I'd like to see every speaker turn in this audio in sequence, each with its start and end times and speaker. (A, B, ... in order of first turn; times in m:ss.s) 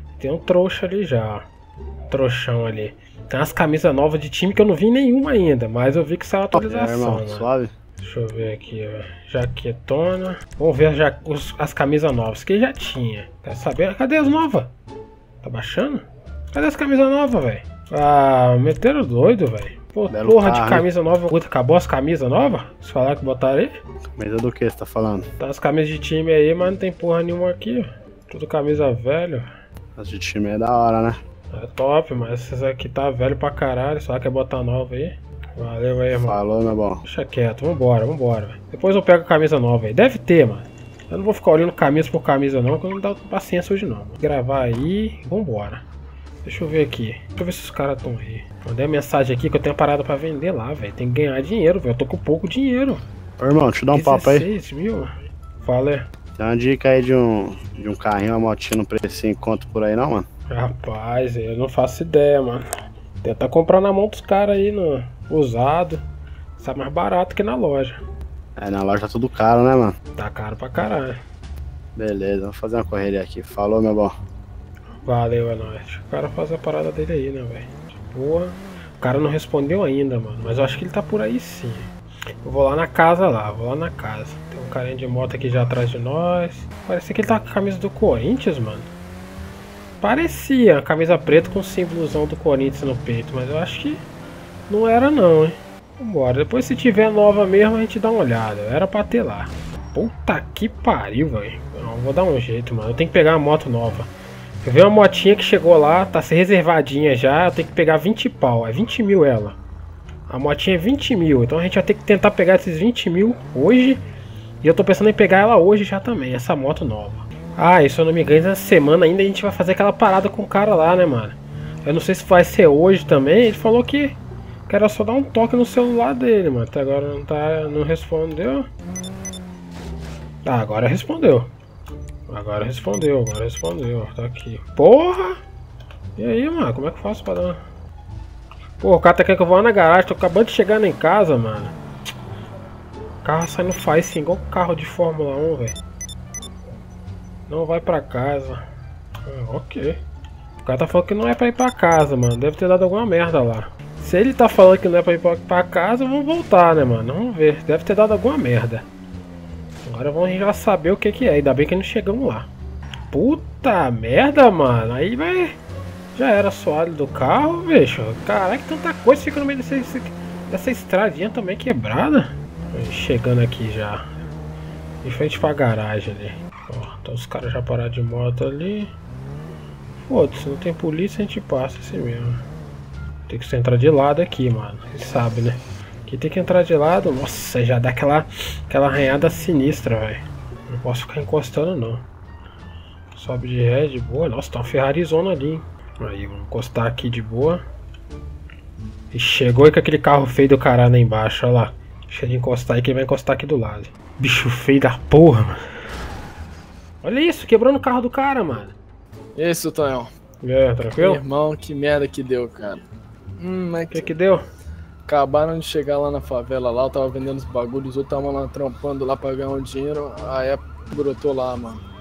0:00.2-0:01.5 A
0:02.1-0:07.5 A
0:06.5-0:07.7 B
0:08.0-0:14.7 A
0:15.4-0:23.8 A
0:20.1-0:20.9 B
0:24.2-0:25.2 B
0:25.4-0:29.5 A
0:30.0-0:31.2 B
0:31.5-0:36.4 A
0:36.3-0:37.0 B
0:37.0-0:45.8 A
0:46.4-0:53.0 A
0:53.4-0:54.5 B
0:53.9-0:55.1 A
0:55.6-0:56.1 A
0:56.4-1:00.2 B
1:00.5-1:02.7 A
1:03.2-1:06.0 A
1:06.6-1:08.0 A
1:08.6-1:09.9 B
1:10.2-1:11.2 A
1:12.0-1:14.1 B
1:15.0-1:21.9 A
1:22.4-1:28.9 A
1:30.0-1:34.0 A
1:34.7-1:44.1 A
1:44.6-1:49.6 A
1:50.3-1:54.0 A
1:54.6-2:04.2 A
2:04.7-2:08.7 A
2:10.4-2:11.5 A
2:12.3-2:15.4 A
2:16.2-2:17.6 A
2:18.8-2:21.7 A
2:23.2-2:25.8 A
2:27.5-2:28.6 A
2:29.2-2:30.0 A
2:30.6-2:38.8 A
2:39.8-2:42.5 A
2:43.1-2:45.6 A
2:46.1-2:54.0 A
2:55.0-2:58.9 A
3:00.1-3:02.4 A
3:03.3-3:12.0 A
3:13.1-3:17.6 A
3:19.1-3:25.6 A
3:27.0-3:28.7 A
3:29.3-3:30.1 C
3:30.4-3:31.2 A
3:31.0-3:32.8 C
3:33.4-3:34.0 C
3:33.9-3:34.4 A
3:35.1-3:41.8 C